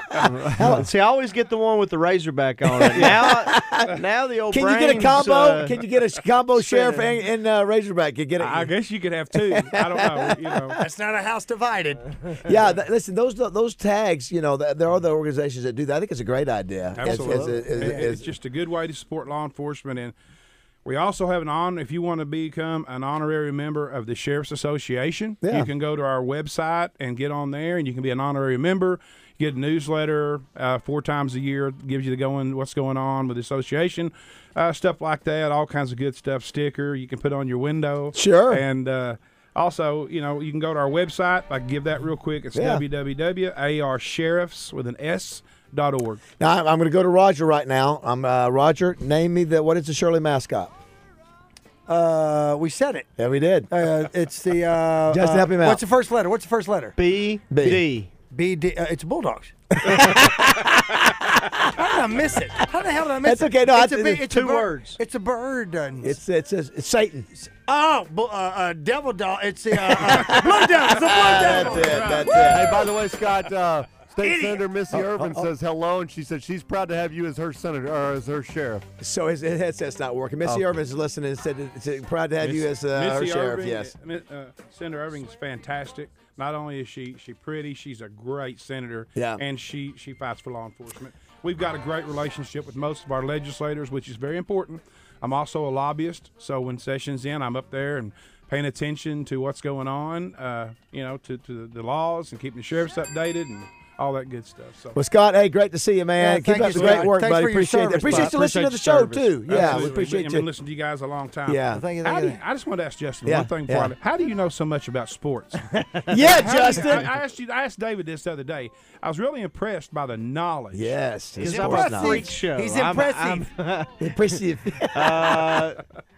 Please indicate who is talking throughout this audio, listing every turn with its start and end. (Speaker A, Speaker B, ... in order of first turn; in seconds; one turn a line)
Speaker A: 0.2-0.9
Speaker B: 0.2-0.8
Speaker C: 0.6-5.8
Speaker A: 2.8-3.9
Speaker A: 4.5-8.7
Speaker C: 6.5-7.1
Speaker D: 8.4-10.8
Speaker A: 9.5-10.2
Speaker E: 10.8-12.2
Speaker A: 12.4-18.2
Speaker D: 16.9-20.1
Speaker E: 17.1-18.1
Speaker D: 20.8-46.2
Speaker A: 25.4-25.7
Speaker A: 38.1-38.6
Speaker A: 42.5-42.8
Speaker A: 46.4-50.7
Speaker E: 51.9-53.1
Speaker A: 53.2-53.7
Speaker E: 53.7-56.9
Speaker A: 55.1-55.8
Speaker C: 57.0-58.1
Speaker A: 57.5-57.8
Speaker E: 58.3-59.5
Speaker A: 59.7-61.6
Speaker E: 61.7-66.2
Speaker A: 63.2-64.3
Speaker C: 64.3-65.0
Speaker A: 66.0-67.3
Speaker E: 67.3-72.9
Speaker A: 70.2-72.8
Speaker D: 71.7-72.2
Speaker B: 72.4-78.8
Speaker E: 74.2-74.6
Speaker A: 74.9-75.5
Speaker A: 79.0-83.9
Speaker D: 82.4-105.0
Speaker A: 89.2-89.4
Speaker A: 104.9-110.5
Speaker E: 106.2-108.3
Speaker C: 108.0-109.7
Speaker D: 109.5-121.0
Speaker A: 111.5-111.8
Speaker E: 111.7-112.4
Speaker A: 113.2-113.9
Speaker A: 116.1-117.1
Speaker A: 120.7-122.3
Speaker E: 121.4-123.5
Speaker C: 121.4-124.1
Speaker A: 124.0-125.6
Speaker C: 124.9-125.8